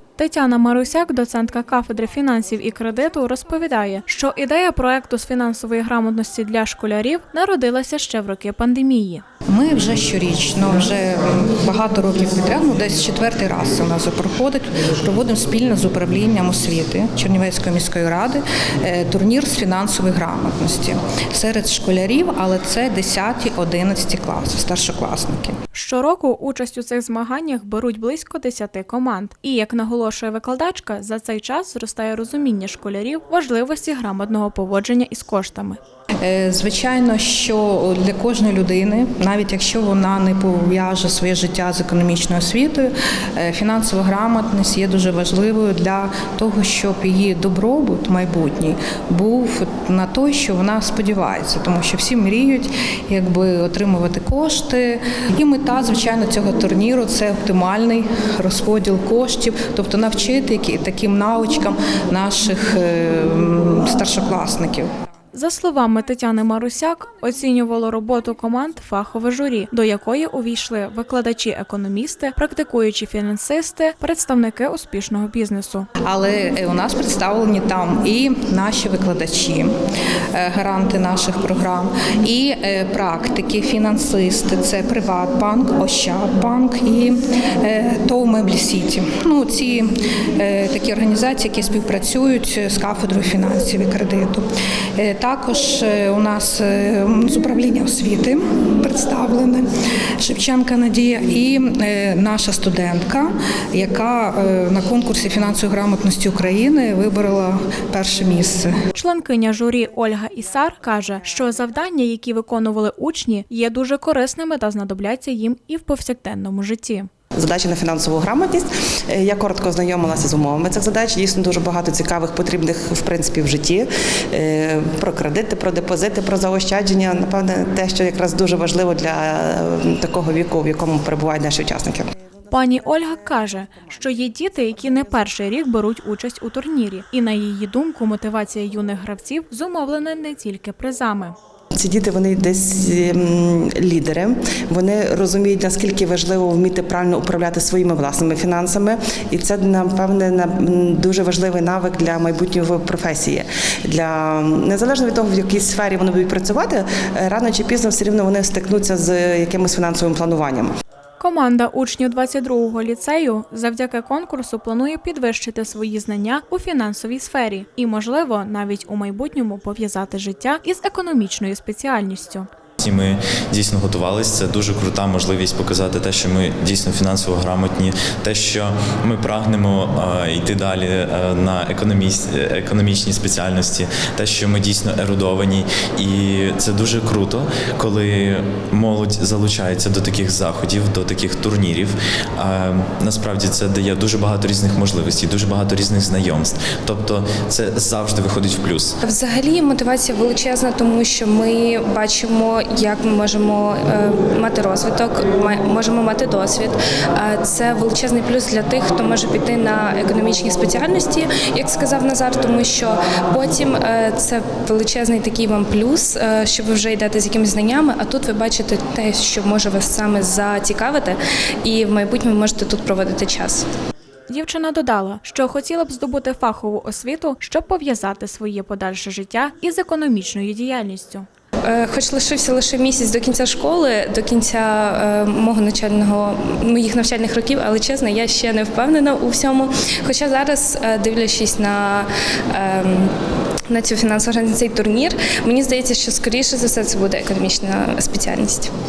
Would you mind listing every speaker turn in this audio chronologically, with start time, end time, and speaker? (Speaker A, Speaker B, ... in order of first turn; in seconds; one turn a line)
Speaker A: 0.2-9.2
Speaker B: 9.5-25.6
Speaker A: 25.7-35.8
Speaker B: 36.2-64.9
Speaker A: 65.3-75.9
Speaker B: 76.0-79.7
Speaker B: 80.3-94.5
Speaker B: 95.0-99.7
Speaker B: 100.2-108.7
Speaker A: 109.0-117.1
Speaker C: 117.4-132.1
Speaker A: 132.5-141.4
Speaker C: 141.8-160.7
Speaker A: 161.2-172.5
Speaker D: 172.8-198.9
Speaker E: 199.0-223.7
Speaker A: 224.3-231.3
Speaker E: 231.7-243.1
Speaker E: 243.7-248.7